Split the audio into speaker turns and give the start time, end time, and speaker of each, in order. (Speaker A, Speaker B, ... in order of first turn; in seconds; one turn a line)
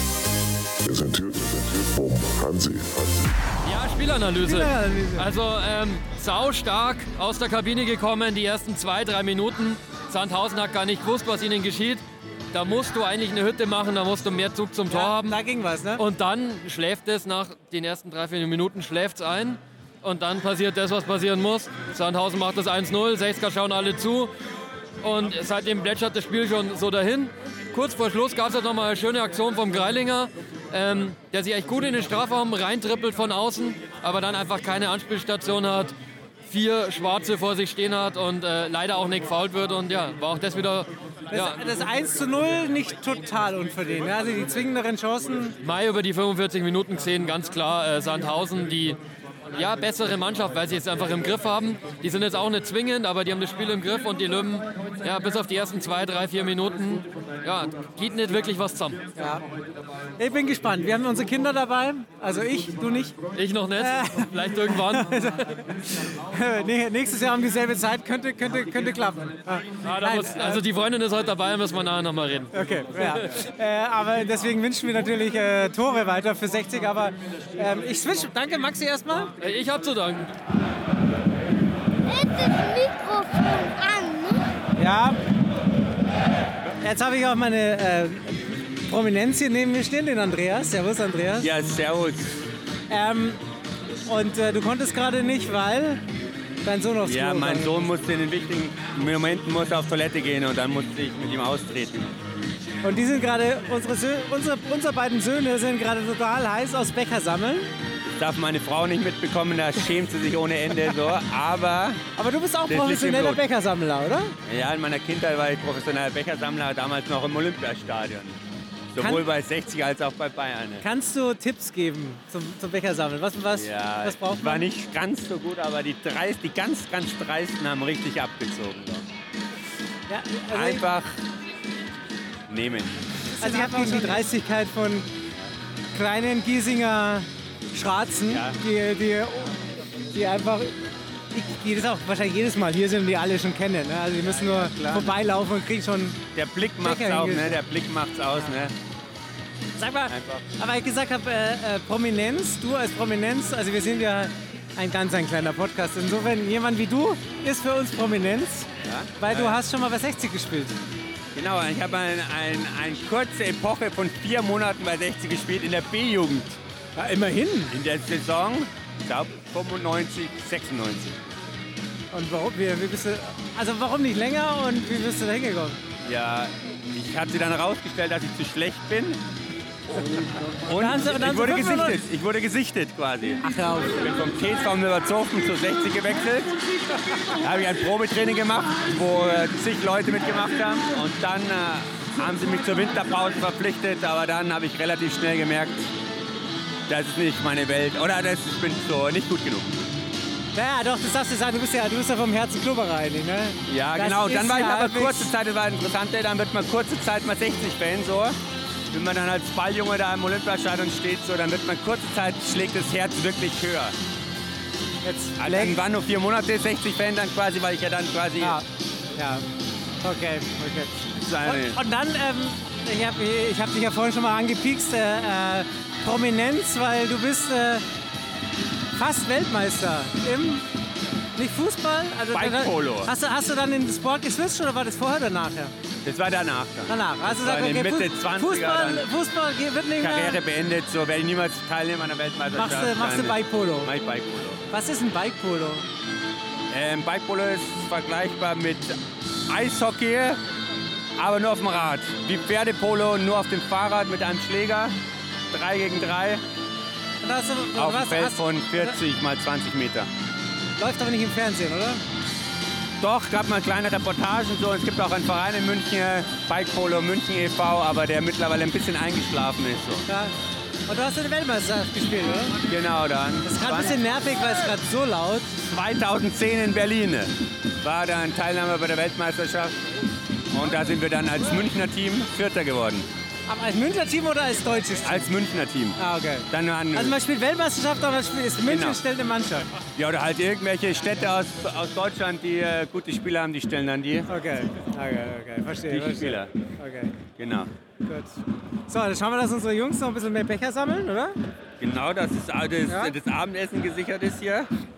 Speaker A: 0.8-3.4
Speaker B: 3.6-15.4
Speaker C: 4.4-5.3
Speaker C: 14.9-16.0
Speaker B: 16.0-24.3
Speaker B: 25.0-35.9
Speaker B: 36.5-41.6
Speaker C: 41.3-45.6
Speaker B: 45.6-49.0
Speaker B: 49.5-59.0
Speaker C: 59.2-59.4
Speaker C: 60.2-63.1
Speaker B: 63.4-65.5
Speaker C: 63.8-65.4
Speaker C: 66.0-70.6
Speaker B: 69.8-73.0
Speaker C: 72.5-79.3
Speaker B: 79.4-80.3
Speaker D: 82.1-84.5
Speaker C: 84.8-85.2
Speaker C: 86.8-91.5
Speaker E: 91.4-92.4
Speaker C: 92.9-93.4
Speaker C: 94.1-96.0
Speaker C: 96.6-97.9
Speaker E: 97.0-102.2
Speaker C: 102.8-107.7
Speaker E: 108.2-112.0
Speaker C: 112.2-114.3
Speaker E: 112.7-113.4
Speaker E: 114.5-118.4
Speaker E: 118.9-120.8
Speaker C: 119.0-119.2
Speaker C: 120.8-124.7
Speaker E: 123.5-129.1
Speaker C: 130.1-130.9
Speaker E: 130.5-131.2
Speaker E: 132.5-133.0
Speaker C: 133.4-135.1
Speaker C: 135.9-139.6
Speaker E: 138.3-138.6
Speaker C: 140.1-140.7
Speaker C: 141.3-146.2
Speaker E: 144.2-145.2
Speaker E: 146.3-148.7
Speaker C: 146.8-147.6
Speaker C: 149.8-158.7
Speaker E: 150.1-150.5
Speaker E: 158.8-159.6
Speaker C: 159.2-160.8
Speaker E: 161.3-166.6
Speaker C: 167.0-167.8
Speaker E: 167.7-171.2
Speaker C: 172.1-175.8
Speaker E: 176.0-179.2
Speaker E: 180.7-186.6
Speaker C: 180.7-182.0
Speaker C: 183.4-183.9
Speaker E: 187.3-195.9
Speaker E: 196.9-199.9
Speaker C: 200.5-205.3
Speaker E: 203.7-208.4
Speaker E: 208.9-213.9
Speaker C: 215.0-215.9
Speaker E: 215.4-218.6
Speaker C: 218.4-218.7
Speaker C: 219.2-219.5
Speaker C: 220.0-227.8
Speaker E: 221.2-221.8
Speaker C: 228.9-230.6
Speaker C: 231.4-235.7
Speaker E: 232.3-233.1
Speaker E: 236.0-239.1
Speaker C: 236.9-240.4
Speaker E: 240.0-244.6
Speaker C: 242.5-243.9
Speaker C: 244.7-245.9
Speaker E: 246.7-250.4
Speaker E: 251.2-255.0
Speaker E: 255.5-256.4
Speaker C: 257.2-259.0
Speaker E: 257.8-260.1
Speaker C: 260.8-262.0
Speaker E: 263.0-270.1
Speaker C: 270.1-270.3
Speaker C: 270.9-272.6
Speaker E: 272.7-274.0
Speaker C: 273.4-275.6
Speaker E: 275.7-279.8
Speaker E: 280.5-283.1
Speaker C: 283.5-285.3
Speaker E: 285.0-286.0
Speaker C: 286.0-289.7
Speaker E: 286.5-287.1
Speaker E: 288.6-289.0
Speaker E: 289.9-294.3
Speaker C: 294.3-297.2
Speaker E: 295.9-296.5
Speaker E: 297.4-297.7
Speaker C: 298.9-301.4
Speaker E: 301.8-304.7
Speaker C: 302.9-303.1